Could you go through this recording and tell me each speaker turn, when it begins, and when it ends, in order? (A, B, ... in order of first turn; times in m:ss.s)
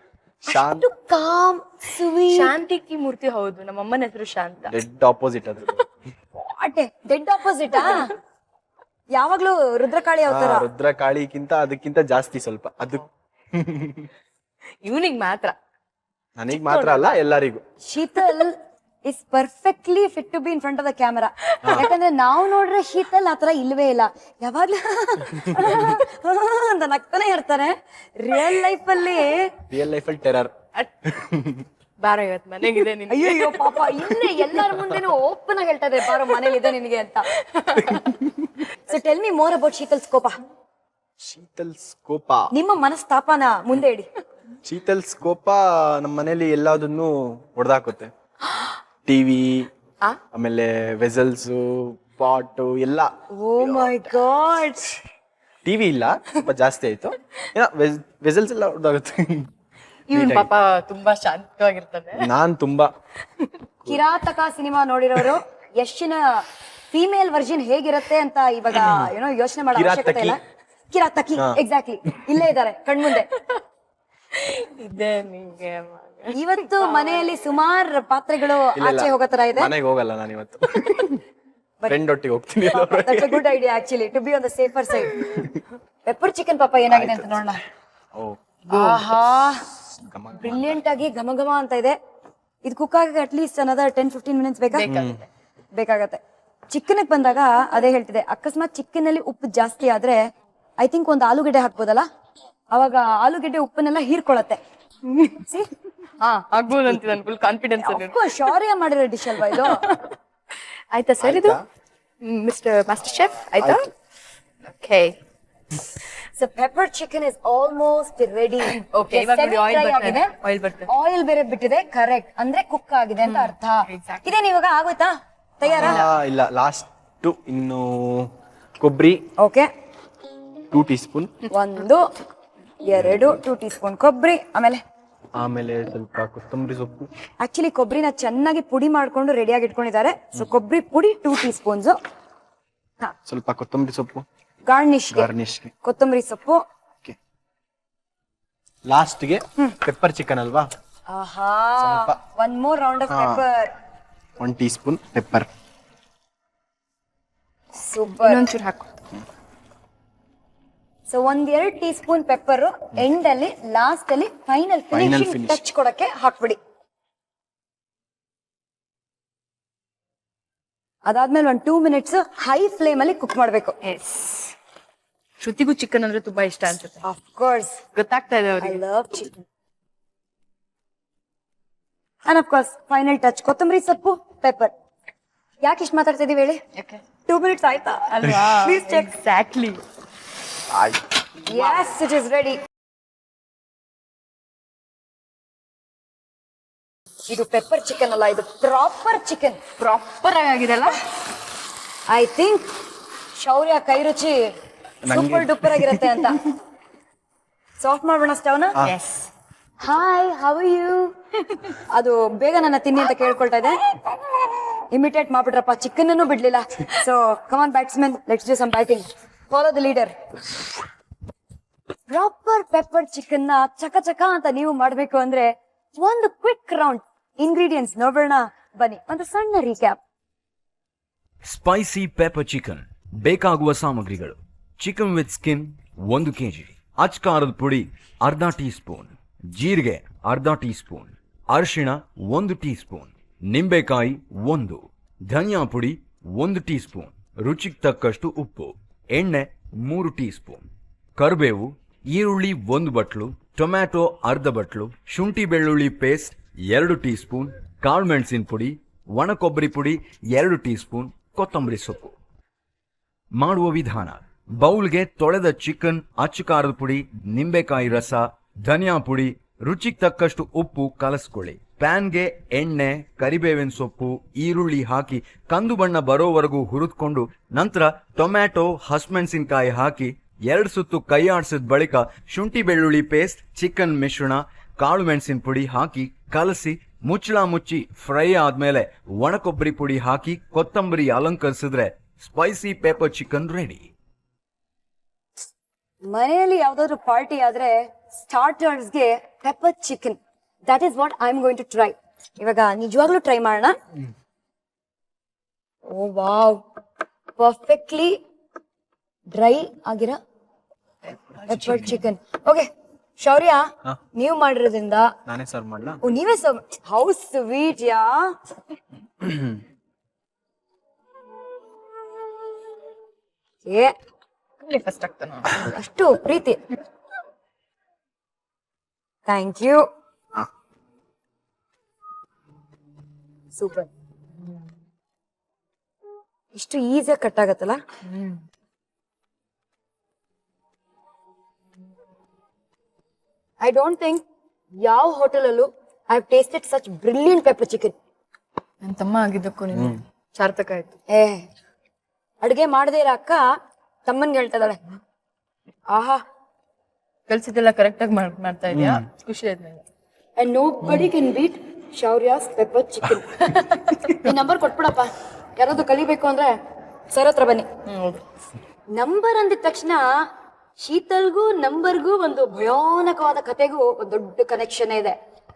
0:00.5-0:00.9 A
0:00.5-0:02.5 B
0:02.3-0:04.7 C
0:04.7-0:05.7 A
0:06.5-0:08.1 B
0:09.1-0:10.7 B
0:10.3-0:14.1 A
0:14.8-0:15.5 C
0:16.4-0:17.6 A
0:16.5-0:17.2 C
0:17.9-0:29.5 B
0:21.6-0:21.9 A
0:29.7-0:31.6 A
0:32.0-0:34.1 C
0:33.1-0:37.3 B
0:36.2-0:36.6 C
0:37.5-0:38.1 C
0:38.9-0:40.4 B
0:41.2-0:42.5 A
0:42.5-0:44.1 B
0:44.6-0:48.1 A
0:49.0-0:49.7 A
0:50.3-0:54.1 A
0:53.4-0:54.9 B
0:55.6-0:59.5 A
1:00.1-1:02.3 C
1:00.1-1:00.5 A
1:02.2-1:02.9 A
1:03.9-1:10.4 B
1:08.8-1:09.1 A
1:09.7-1:10.4 A
1:10.9-1:13.3 B
1:14.3-1:17.2 C
1:16.3-1:19.7 B
1:18.8-1:21.2 A
1:21.9-1:23.4 A
1:22.7-1:25.3 B
1:25.2-1:25.6 A
1:26.0-1:27.6 B
1:26.9-1:27.4 A
1:28.2-1:29.0 A
1:28.7-1:29.6 B
1:30.0-1:30.8 A
1:30.4-1:31.9 B
1:32.6-1:34.8 B
1:34.7-1:35.2 C
1:34.9-1:35.2 A
1:35.7-1:36.2 B
1:36.7-1:40.2 B
1:40.8-1:42.0 B
1:42.7-1:44.6 B
1:45.1-1:45.4 C
1:45.4-1:45.7 B
1:46.2-1:48.3 C
1:47.8-1:49.8 B
1:49.6-1:50.2 C
1:50.9-1:51.6 C
1:51.2-1:51.6 A
1:52.2-1:53.9 C
1:53.6-1:53.9 A
1:54.8-1:55.2 C
1:56.4-2:00.3 B
1:58.8-2:00.9 C
2:00.9-2:06.0 B
2:03.2-2:04.3 C
2:05.7-2:06.1 C
2:05.8-2:09.2 A
2:09.4-2:09.7 B
2:10.7-2:11.3 A
2:11.5-2:12.0 B
2:12.8-2:14.8 B
2:13.0-2:13.3 A
2:15.4-2:17.1 A
2:17.4-2:22.0 B
2:23.2-2:24.2 A
2:24.7-2:25.3 B
2:25.1-2:25.7 A
2:25.8-2:26.6 B
2:28.8-2:30.7 A
2:31.1-2:33.7 B
2:31.8-2:32.2 A
2:33.1-2:33.4 A
2:34.4-2:35.5 A
2:37.8-2:38.4 B
2:38.1-2:38.9 C
2:41.1-2:46.6 B
2:44.9-2:45.6 A
2:51.0-2:53.7 B
2:53.8-2:54.5 C
2:55.4-2:57.0 C
2:57.0-2:57.8 B
2:57.9-2:58.8 C
2:58.6-2:59.4 B
3:02.2-3:04.7 B
3:05.6-3:06.6 B
3:06.8-3:07.0 C
3:07.3-3:09.1 B
3:08.1-3:09.8 C
3:11.4-3:12.6 B
3:17.3-3:19.6 B
3:19.8-3:21.0 C
3:22.1-3:22.6 B
3:23.3-3:24.4 B
3:25.0-3:26.3 A
3:25.1-3:26.5 B
3:27.8-3:28.8 B
3:28.8-3:29.3 C
3:29.8-3:31.1 B
3:31.9-3:33.8 B
3:34.9-3:40.1 B
3:42.1-3:50.0 B
3:51.4-4:10.6 D
4:11.2-4:22.1 D
4:23.3-4:53.9 D
4:56.1-5:03.8 B
5:05.9-5:06.6 B
5:07.4-5:08.2 B
5:09.3-5:10.2 B
5:11.5-5:12.7 B
5:13.2-5:15.1 B
5:15.3-5:16.0 A
5:16.0-5:18.3 B
5:19.2-5:19.5 A
5:23.6-5:23.9 B
5:24.6-5:25.7 C
5:25.5-5:26.6 B
5:29.2-5:29.8 B
5:33.5-5:33.9 B
5:36.5-5:37.8 B
5:43.6-5:44.2 B
5:44.8-5:47.9 B
5:48.8-5:50.9 C
5:49.7-5:50.0 A
5:51.1-5:51.5 B
5:52.4-5:53.5 B
5:54.0-5:54.8 B
5:55.9-5:56.2 B
5:57.3-5:59.8 C
5:58.7-5:59.0 A
6:00.4-6:06.5 B
6:03.5-6:04.2 C
6:07.1-6:07.7 B
6:07.9-6:08.2 C
6:08.9-6:10.1 B
6:10.8-6:15.1 B